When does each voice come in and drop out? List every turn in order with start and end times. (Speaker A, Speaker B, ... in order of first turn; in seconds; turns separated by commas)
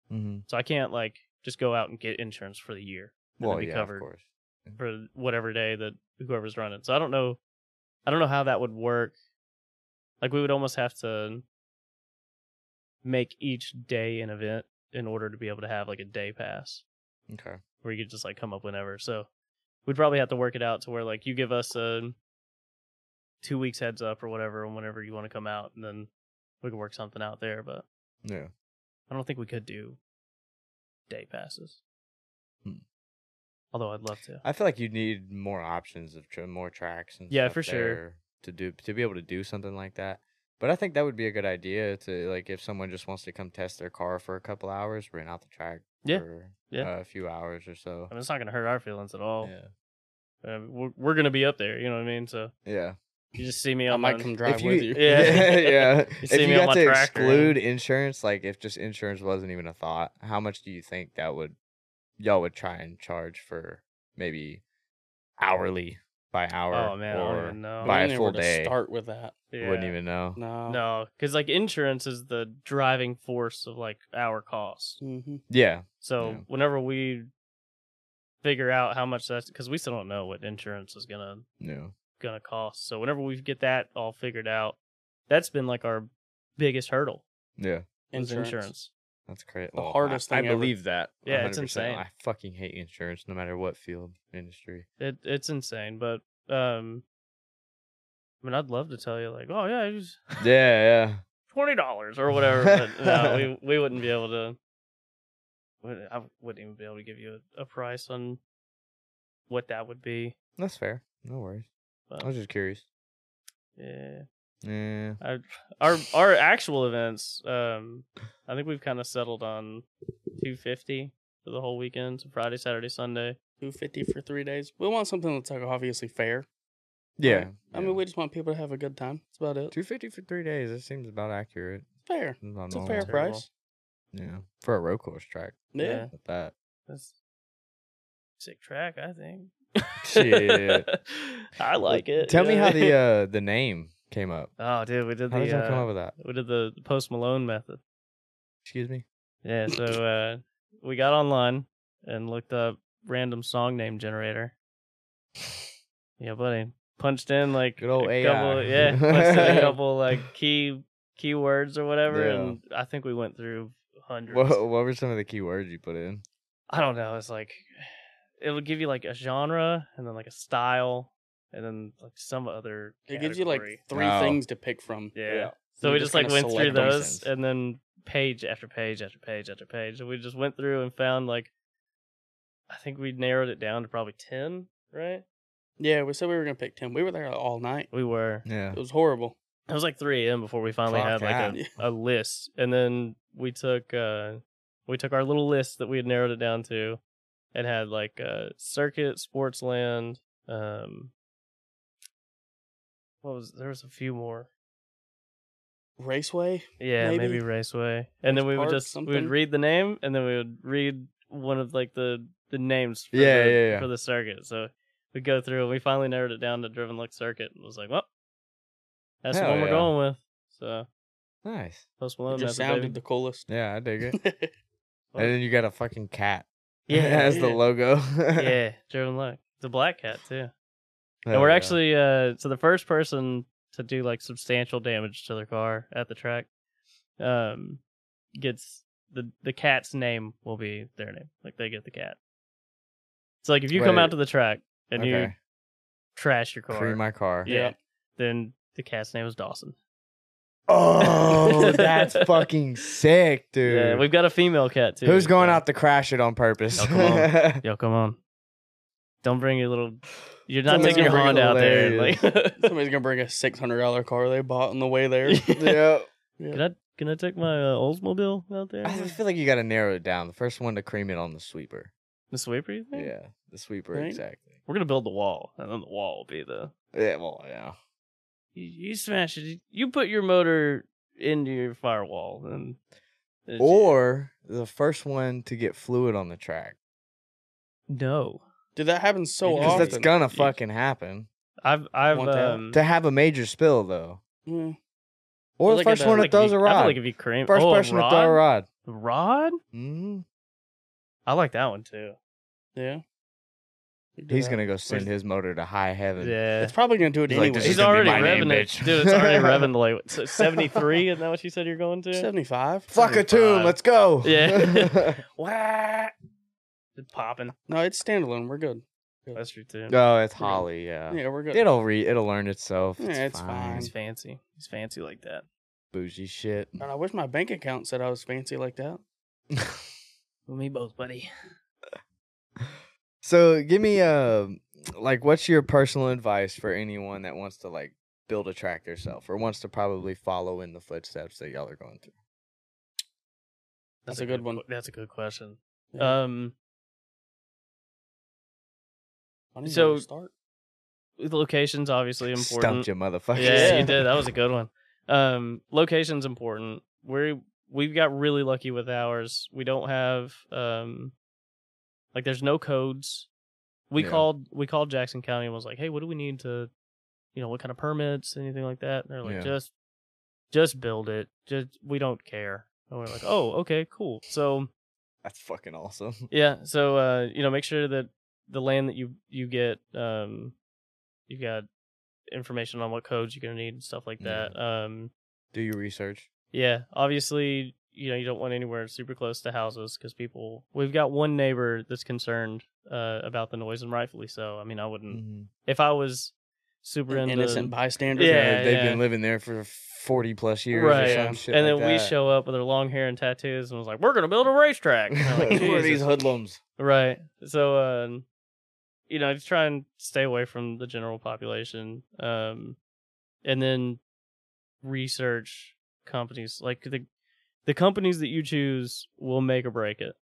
Speaker A: 0.1-0.4, Speaker B: 0.5-4.0, Speaker A: 3.4-4.8, Speaker B: 4.8-7.4, Speaker B: 8.1-9.1, Speaker B: 10.2-11.4, Speaker B: 13.0-16.8, Speaker A: 17.3-17.6, Speaker B: 17.8-19.3, Speaker B: 19.9-22.1, Speaker B: 23.4-26.1, Speaker B: 26.6-27.8, Speaker A: 28.2-28.5, Speaker B: 29.1-30.0, Speaker B: 31.1-31.8, Speaker B: 33.7-34.4, Speaker A: 34.4-48.1, Speaker B: 37.3-38.0, Speaker B: 46.0-46.9, Speaker B: 48.1-49.5, Speaker A: 49.4-49.7, Speaker B: 50.4-52.5, Speaker A: 52.6-53.0, Speaker B: 53.4-54.3, Speaker C: 53.9-55.5, Speaker A: 54.4-61.5, Speaker B: 54.9-57.6, Speaker A: 62.2-64.6, Speaker A: 65.4-68.7, Speaker B: 66.7-68.0, Speaker C: 67.8-69.3, Speaker B: 69.5-69.9, Speaker A: 69.6-70.4, Speaker C: 70.3-70.8, Speaker B: 70.7-75.0, Speaker C: 75.0-75.4, Speaker A: 75.5-76.4, Speaker B: 76.0-77.3, Speaker B: 78.4-81.4, Speaker A: 81.6-81.9, Speaker B: 82.2-84.8, Speaker B: 85.3-87.2, Speaker A: 87.6-87.8, Speaker C: 88.1-88.7, Speaker B: 88.1-88.9, Speaker A: 89.3-94.8, Speaker C: 89.8-90.7, Speaker B: 91.2-92.0, Speaker B: 95.0-97.0, Speaker B: 98.4-100.4, Speaker A: 100.4-101.2, Speaker B: 101.5-104.6, Speaker A: 102.6-103.5, Speaker B: 105.8-108.4, Speaker B: 109.5-110.3, Speaker A: 110.6-111.7, Speaker A: 112.2-112.8, Speaker B: 113.8-114.2, Speaker A: 114.6-115.2, Speaker B: 115.2-119.8, Speaker B: 120.4-123.4, Speaker C: 123.6-126.5, Speaker A: 127.2-128.0, Speaker C: 127.2-129.7, Speaker A: 129.7-131.9, Speaker C: 132.1-133.5, Speaker A: 132.4-133.1, Speaker B: 133.0-133.4, Speaker A: 134.1-136.5, Speaker C: 135.7-136.1, Speaker B: 135.8-136.1, Speaker B: 136.9-137.1, Speaker B: 138.4-142.9, Speaker A: 140.0-140.9, Speaker A: 141.8-144.5, Speaker B: 144.6-147.8, Speaker A: 145.3-146.1, Speaker A: 148.6-149.0, Speaker B: 149.4-154.5, Speaker B: 156.2-164.6, Speaker A: 157.8-159.8, Speaker A: 162.1-162.6, Speaker A: 164.3-166.2, Speaker B: 166.7-167.9, Speaker B: 168.4-173.8, Speaker C: 173.1-175.1, Speaker A: 173.9-174.4, Speaker B: 175.1-181.5, Speaker A: 175.3-175.6, Speaker C: 175.8-176.9, Speaker A: 176.5-177.3, Speaker B: 182.7-185.2, Speaker C: 185.8-187.9, Speaker B: 187.9-188.4, Speaker A: 188.4-188.8, Speaker C: 188.7-189.3, Speaker B: 189.7-197.0, Speaker A: 190.9-191.6, Speaker B: 197.5-201.1, Speaker B: 203.2-204.5, Speaker C: 206.0-207.4, Speaker B: 206.8-218.1, Speaker C: 208.3-209.3, Speaker A: 213.1-213.9, Speaker B: 219.2-220.9, Speaker A: 219.3-219.9, Speaker A: 221.4-221.8, Speaker B: 222.0-223.0, Speaker C: 222.3-223.5, Speaker A: 223.5-224.2, Speaker C: 224.1-224.5, Speaker A: 225.2-228.6, Speaker B: 226.9-227.6, Speaker B: 228.3-230.5, Speaker A: 231.2-231.8, Speaker B: 231.3-236.5, Speaker B: 237.2-237.8, Speaker B: 238.3-242.2, Speaker B: 243.4-245.3, Speaker A: 243.7-244.1, Speaker A: 244.9-245.3, Speaker B: 246.2-249.8, Speaker A: 246.7-247.5, Speaker C: 247.4-247.7, Speaker A: 250.7-254.1, Speaker B: 251.0-252.5, Speaker B: 253.6-255.6, Speaker A: 255.0-257.6, Speaker B: 256.8-258.2, Speaker B: 259.2-262.7, Speaker C: 260.7-261.6, Speaker A: 260.8-262.2, Speaker C: 262.6-265.5, Speaker B: 265.3-265.8, Speaker A: 265.5-266.1, Speaker B: 266.5-269.2, Speaker A: 268.8-271.9, Speaker B: 272.3-273.1, Speaker A: 272.9-274.6, Speaker C: 273.9-274.2, Speaker B: 274.7-276.7, Speaker A: 276.9-277.7, Speaker B: 278.5-282.8, Speaker B: 283.5-283.9, Speaker A: 283.6-286.7, Speaker B: 287.9-288.4, Speaker C: 288.8-290.1, Speaker B: 289.4-290.5, Speaker A: 289.6-291.3, Speaker B: 291.6-292.8, Speaker C: 292.1-292.6, Speaker A: 292.7-294.2, Speaker C: 294.4-294.8, Speaker A: 295.6-298.7, Speaker C: 295.7-296.3, Speaker B: 296.0-299.6, Speaker A: 299.7-300.2, Speaker B: 301.3-302.1, Speaker C: 302.8-303.0, Speaker C: 304.2-305.1, Speaker A: 304.3-306.4, Speaker B: 306.2-306.7, Speaker C: 306.6-308.5, Speaker A: 307.3-309.7, Speaker B: 307.5-312.3, Speaker C: 312.1-313.2, Speaker A: 312.9-315.2, Speaker B: 313.0-316.1, Speaker B: 316.9-317.5, Speaker C: 317.7-319.4, Speaker B: 319.3-320.0, Speaker A: 319.9-323.9, Speaker C: 320.4-321.6, Speaker C: 323.0-323.9, Speaker B: 323.8-325.4, Speaker A: 325.9-326.8, Speaker C: 326.8-329.0, Speaker A: 329.5-329.9, Speaker B: 330.5-331.3, Speaker A: 332.6-342.1, Speaker B: 344.1-346.5, Speaker C: 344.1-344.6, Speaker C: 349.5-350.3, Speaker B: 349.6-350.1, Speaker B: 351.2-361.1, Speaker A: 352.3-354.2, Speaker C: 353.4-353.9, Speaker B: 362.1-363.3, Speaker B: 363.9-366.7, Speaker A: 364.0-364.2, Speaker B: 367.3-369.7, Speaker A: 369.2-369.5, Speaker B: 370.5-374.7, Speaker A: 375.2-376.2, Speaker B: 376.3-380.5, Speaker B: 381.3-381.6, Speaker B: 382.3-385.1, Speaker A: 384.2-384.5, Speaker A: 385.5-386.3, Speaker B: 386.5-399.0, Speaker A: 395.1-395.5, Speaker C: 397.1-398.6, Speaker A: 398.2-402.1, Speaker B: 400.7-406.1, Speaker C: 400.9-401.4, Speaker A: 405.1-406.6, Speaker C: 405.5-405.8, Speaker B: 406.8-408.2, Speaker B: 409.1-412.8, Speaker B: 413.4-414.0, Speaker B: 414.8-417.1, Speaker B: 417.6-420.1